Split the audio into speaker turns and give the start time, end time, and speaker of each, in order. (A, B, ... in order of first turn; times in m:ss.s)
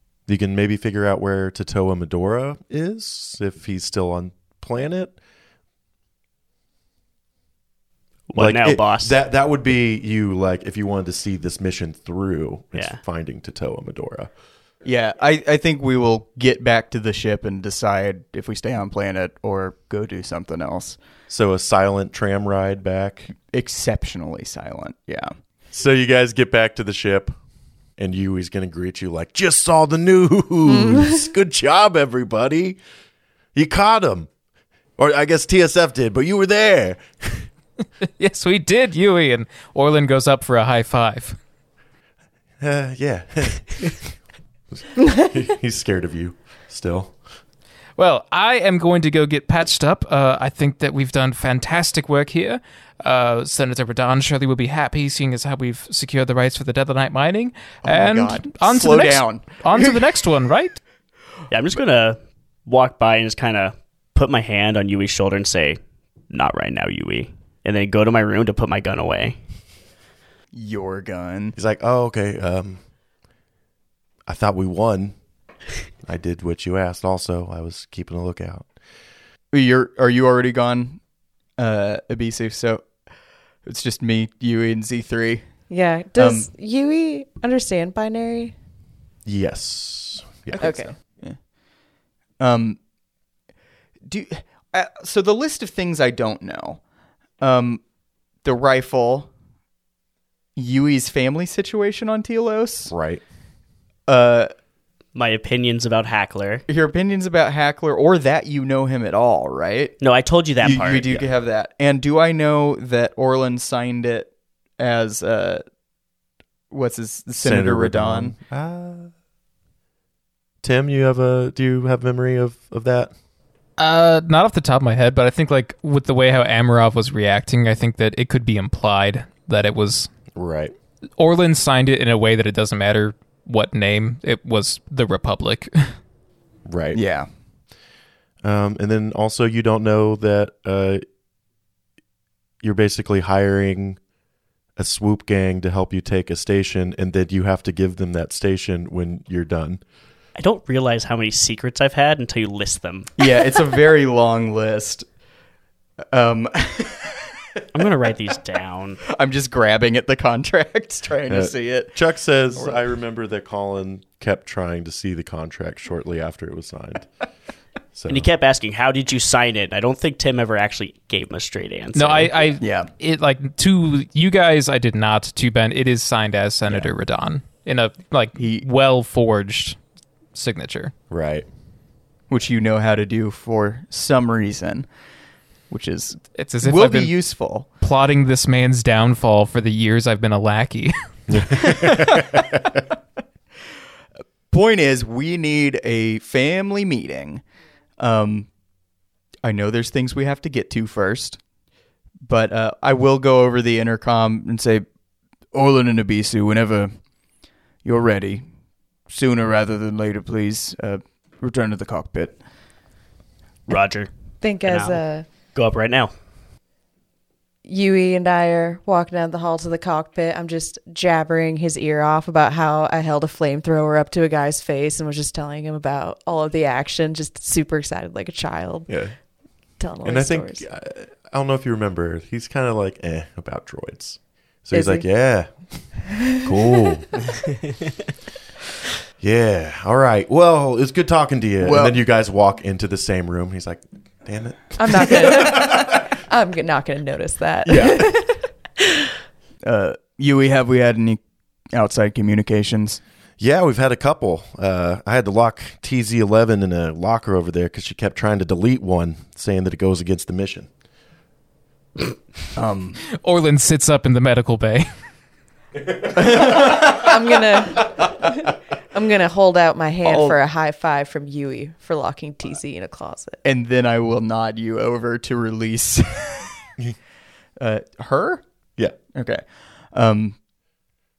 0:00.3-0:05.1 A
0:08.3-0:09.1 B
0:08.3-0:14.3 A
0:14.8-0:21.0 C
0:21.3-0:23.3 A
0:23.5-0:25.3 C
0:25.7-0:27.3 A
0:28.0-0:32.8 A
0:30.8-0:31.1 D
0:33.5-0:34.3 A
0:35.0-0:37.5 A
0:38.2-0:41.4 E
0:42.6-0:44.1 A
0:44.7-0:47.2 A
0:48.0-1:00.8 E
0:57.8-1:00.1 C
1:01.5-1:05.8 B
1:06.3-1:09.4 B
1:10.5-1:11.6 C
1:11.6-1:12.8 A
1:14.3-1:15.1 A
1:16.0-1:18.7 A
1:19.5-1:21.0 C
1:21.6-1:22.9 C
1:23.6-1:25.5 C
1:25.7-1:28.5 D
1:26.2-1:26.5 C
1:29.2-1:30.7 A
1:30.5-1:31.4 C
1:30.6-1:30.9 D
1:32.4-1:32.8 C
1:34.0-1:36.8 C
1:37.4-1:37.8 C
1:38.4-1:39.3 C
1:40.6-1:42.9 C
1:42.9-1:43.2 A
1:44.1-1:44.5 C
1:45.1-1:46.6 B
1:46.7-1:50.0 C
1:50.0-1:51.3 B
1:50.6-1:55.6 C
1:56.7-1:58.3 C
1:57.4-1:59.1 A
2:00.6-2:03.1 A
2:03.8-2:10.1 E
2:10.3-2:10.7 A
2:11.2-2:16.0 E
2:16.6-2:17.0 A
2:16.9-2:17.3 C
2:18.4-2:21.0 A
2:22.6-2:24.0 A
2:24.8-2:29.8 A
2:30.4-2:33.3 B
2:33.2-2:35.0 C
2:36.1-2:37.4 C
2:37.7-2:39.0 B
2:39.1-2:42.0 C
2:41.3-2:47.1 A
2:42.5-2:42.8 C
2:47.9-2:48.3 A
2:48.1-2:52.5 B
2:51.9-2:59.8 E
2:52.6-2:52.9 C
2:58.4-2:58.7 C
3:00.3-3:00.9 E
3:01.1-3:01.5 A
3:02.3-3:04.9 C
3:05.7-3:07.7 C
3:06.3-3:07.2 E
3:07.8-3:11.0 E
3:11.3-3:12.5 A
3:11.7-3:12.4 C
3:14.5-3:17.4 C
3:18.0-3:18.5 C
3:19.4-3:21.4 C
3:22.2-3:24.8 C
3:25.5-3:27.0 C
3:27.8-3:28.4 C
3:29.1-3:32.4 C
3:33.7-3:34.1 B
3:34.4-3:35.2 D
3:34.6-3:35.0 B
3:35.5-3:36.1 B
3:37.6-3:48.9 D
3:48.9-3:49.1 A
3:49.8-3:50.6 D
3:50.0-3:57.1 A
3:54.7-3:55.0 D
3:59.2-4:05.8 A
4:01.6-4:02.0 C
4:04.8-4:08.4 D
4:07.7-4:08.1 A
4:09.6-4:11.2 C
4:11.7-4:13.0 C
4:13.4-4:20.7 A
4:22.5-4:23.0 C
4:23.1-4:25.0 E
4:26.1-4:27.1 C
4:26.5-4:33.4 D
4:30.0-4:30.3 C
4:33.4-4:36.5 C
4:37.6-4:38.4 C
4:39.1-4:40.4 C